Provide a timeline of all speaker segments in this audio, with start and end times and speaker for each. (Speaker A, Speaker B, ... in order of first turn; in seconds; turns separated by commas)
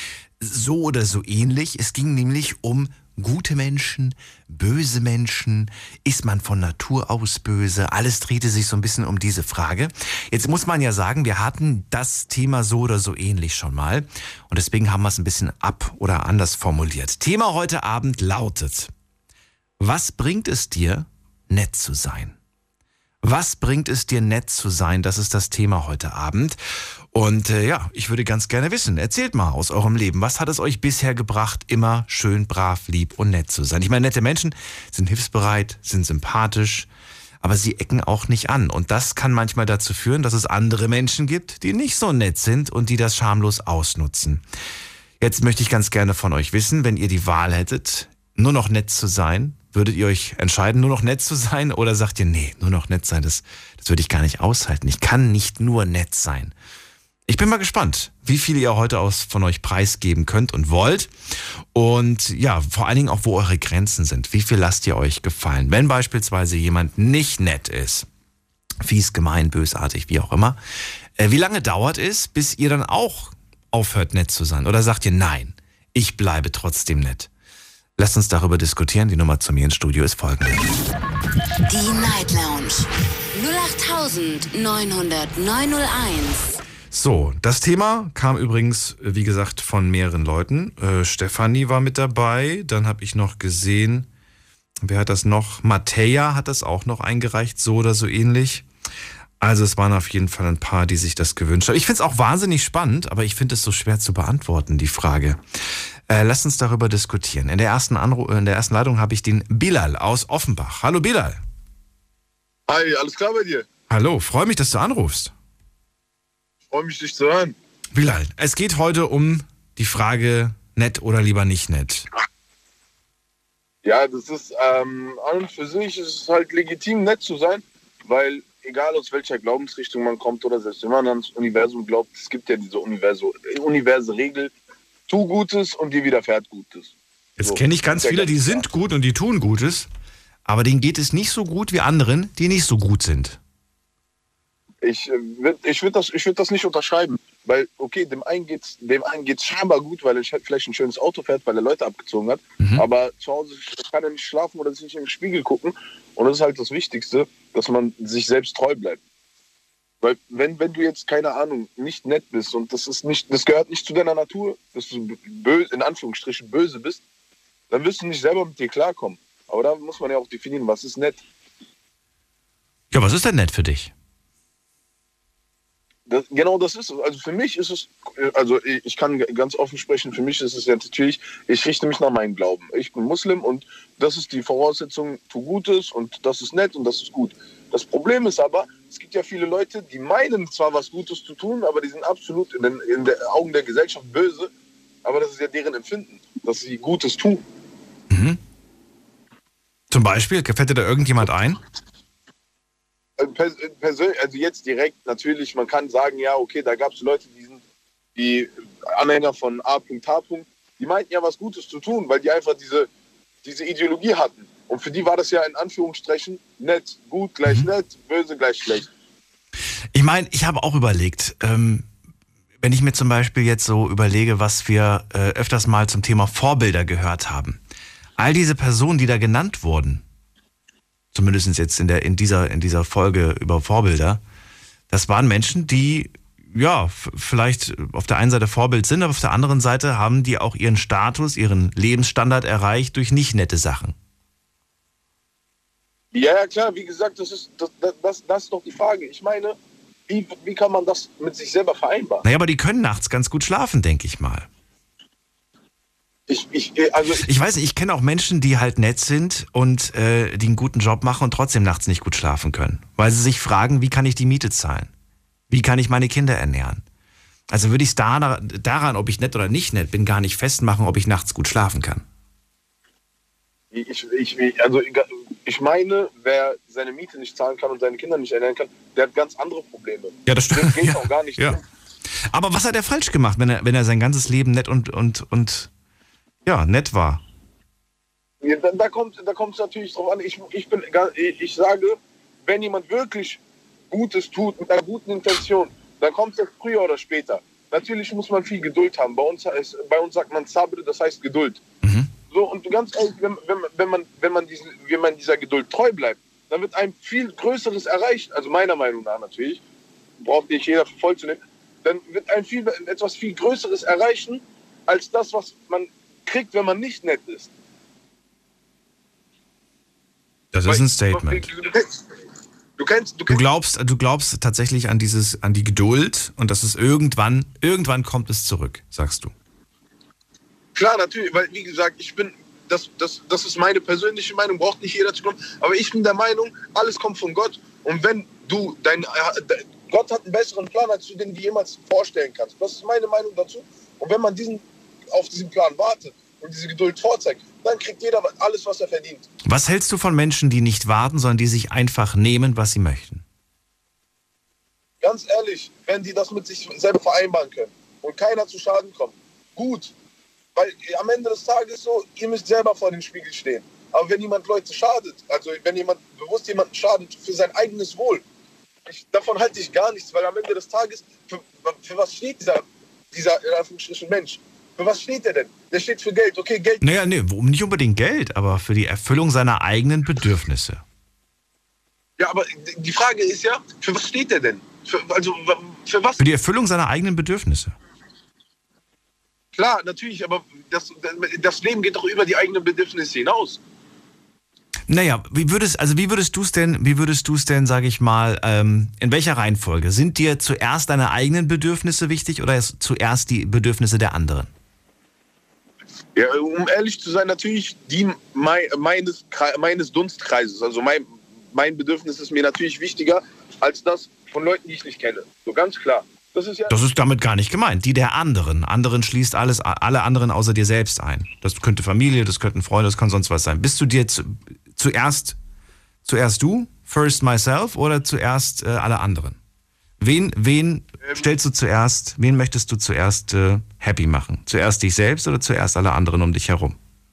Speaker A: 0.4-18.9, Speaker A: 19.8-22.4, Speaker A: 23.2-36.9, Speaker A: 37.4-44.4, Speaker A: 45.2-56.5, Speaker A: 57.3-68.1, Speaker A: 68.8-70.6, Speaker A: 71.2-77.3, Speaker A: 78.0-80.6, Speaker B: 81.7-86.6, Speaker A: 86.9-94.1, Speaker A: 94.8-98.7, Speaker A: 99.4-111.4, Speaker C: 112.7-113.7, Speaker A: 113.9-115.3, Speaker C: 116.7-117.6, Speaker A: 117.9-122.1, Speaker C: 123.8-134.5, Speaker C: 135.1-138.6, Speaker A: 137.4-139.9, Speaker A: 140.5-143.4, Speaker C: 144.8-159.0, Speaker A: 152.6-152.8, Speaker C: 160.0-167.0, Speaker C: 167.7-171.2, Speaker A: 172.9-173.9, Speaker C: 176.1-194.5, Speaker C: 195.0-197.4, Speaker A: 198.1-198.4, Speaker A: 199.9-201.6, Speaker C: 203.2-207.6, Speaker C: 208.2-212.9, Speaker C: 213.4-218.9, Speaker A: 219.9-221.9, Speaker A: 222.6-227.6, Speaker A: 228.2-230.0, Speaker A: 231.1-234.2, Speaker A: 234.9-244.0, Speaker C: 246.1-249.6, Speaker C: 250.1-252.2, Speaker A: 252.2-254.5, Speaker C: 256.3-257.2, Speaker A: 257.1-264.9, Speaker A: 265.5-266.8, Speaker A: 267.5-272.1, Speaker C: 273.7-281.6, Speaker A: 280.3-281.6, Speaker A: 282.2-285.7, Speaker A: 286.5-287.2, Speaker C: 288.4-301.6, Speaker A: 301.8-302.1, Speaker C: 302.3-309.6, Speaker C: 310.2-317.5, Speaker A: 320.5-321.5, Speaker C: 320.7-322.0, Speaker C: 322.8-323.4, Speaker A: 323.3-329.3, Speaker C: 330.8-349.3, Speaker A: 349.4-353.2, Speaker C: 355.0-359.9, Speaker C: 360.6-368.2, Speaker C: 368.9-376.8, Speaker A: 376.8-380.8, Speaker C: 382.2-386.2, Speaker A: 386.2-387.8, Speaker C: 389.5-393.6, Speaker A: 394.9-404.5, Speaker C: 406.1-416.7, Speaker A: 416.7-425.4, Speaker A: 426.1-429.4, Speaker A: 430.0-436.8